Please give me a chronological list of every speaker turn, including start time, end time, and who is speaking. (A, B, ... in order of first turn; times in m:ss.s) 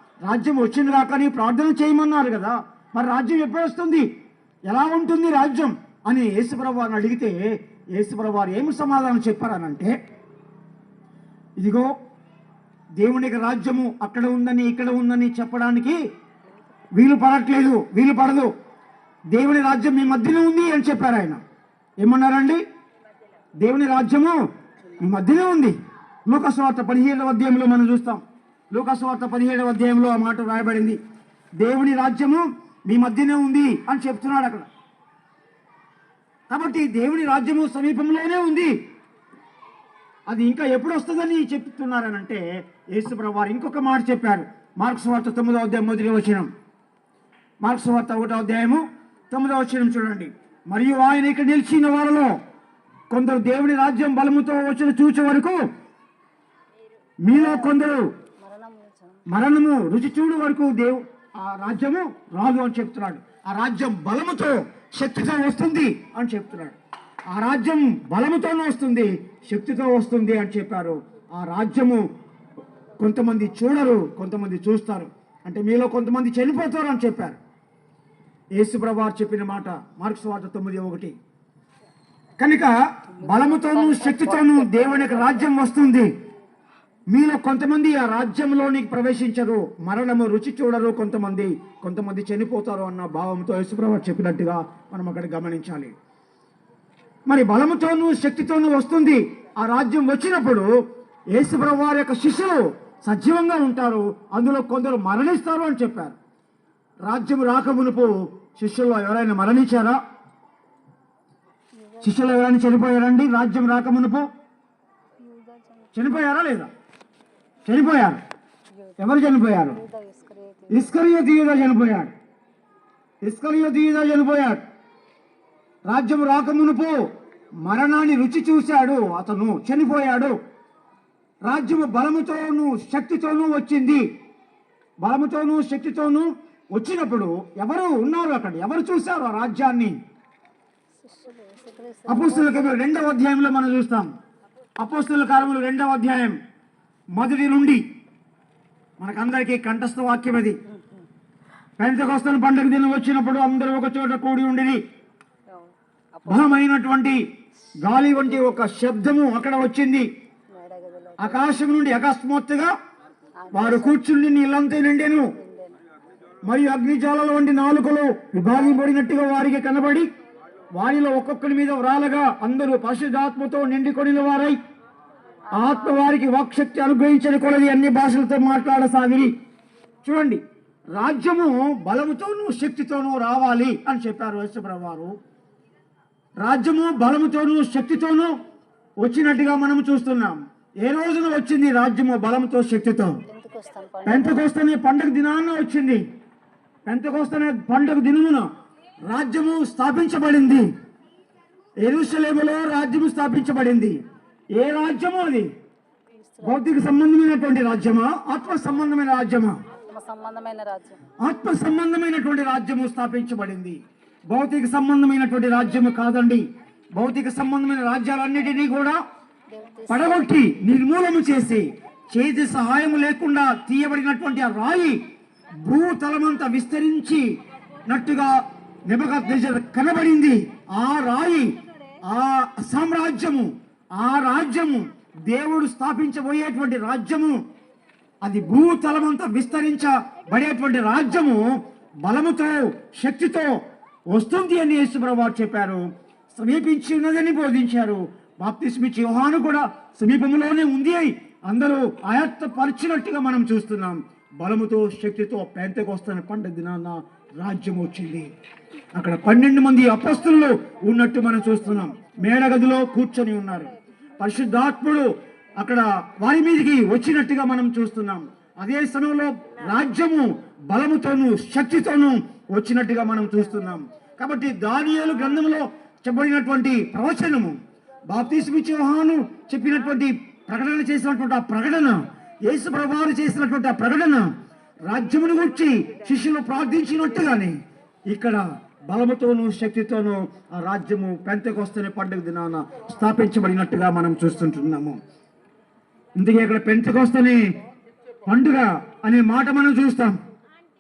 0:00.2-0:04.1 A
0:04.7-0:07.4 A
0:08.0-0:09.9 A
0:11.6-0:11.9 A
0:13.0-0:16.0 A
0:17.0-0:18.5 A
0:19.3-0:21.4 A
0:22.0-0:22.6 A
0:23.6-0:24.4 A
0:25.0-0:31.0 A
0:31.6-0:34.7 A
0:36.5-0:38.7 A
0:40.3-0:42.4 A
0:42.9-0:46.5 A
0:47.6-0:52.3 A
0:53.1-0:55.6 A
0:57.2-0:58.0 A
0:57.3-0:57.8 B
0:58.4-0:59.2 B
0:59.3-1:06.8 A
1:07.3-1:12.0 A
1:13.0-1:17.4 A
1:18.6-1:21.2 A
1:22.4-1:26.1 A
1:23.2-1:25.4 B
1:27.1-1:35.9 A
1:37.3-1:40.7 A
1:41.3-1:46.2 A
1:47.1-1:50.0 A
1:51.8-1:52.3 B
1:52.0-1:54.3 A
1:55.2-1:56.0 B
1:55.9-1:56.7 A
1:57.7-1:58.2 A
1:58.7-2:00.9 B
1:59.0-1:59.8 A
2:00.7-2:02.1 A
2:03.2-2:04.6 A
2:05.9-2:07.0 A
2:07.6-2:10.4 A
2:11.5-2:14.0 A
2:15.0-2:20.0 A
2:21.0-2:22.8 B
2:22.1-2:24.1 A
2:24.8-2:26.4 A
2:27.2-2:27.8 A
2:29.0-2:30.6 A
2:30.7-2:31.0 B
2:31.8-2:34.8 A
2:35.5-2:36.6 B
2:36.3-2:37.2 A
2:37.8-2:40.1 A
2:38.2-2:38.6 B
2:40.5-2:41.6 B
2:41.2-2:42.7 A
2:43.4-2:44.0 B
2:43.5-2:45.3 A
2:45.4-2:45.8 B
2:46.4-2:50.1 A
2:50.8-2:54.6 A
2:55.5-2:56.1 B
2:55.5-2:59.3 A
3:00.0-3:00.4 A
3:01.0-3:05.1 A
3:06.4-3:08.3 A
3:09.0-3:13.2 A
3:13.3-3:14.4 B
3:14.1-3:16.0 A
3:16.9-3:18.4 A
3:19.1-3:20.7 A
3:21.8-3:24.0 A
3:24.6-3:25.5 A
3:26.2-3:26.6 B
3:26.4-3:29.6 A
3:29.9-3:31.0 B
3:31.2-3:36.4 A
3:37.0-3:39.0 A
3:39.5-3:40.3 B
3:39.9-3:45.0 A
3:45.7-3:47.3 A
3:47.9-3:51.5 A
3:52.1-3:57.4 A
3:58.2-4:01.4 A
4:02.0-4:03.5 A
4:04.1-4:18.3 A
4:19.0-4:25.1 A
4:25.6-4:37.6 A
4:38.1-4:44.3 A
4:44.9-4:47.6 A
4:48.1-4:55.0 A
4:56.2-4:57.4 A
4:58.3-5:00.2 A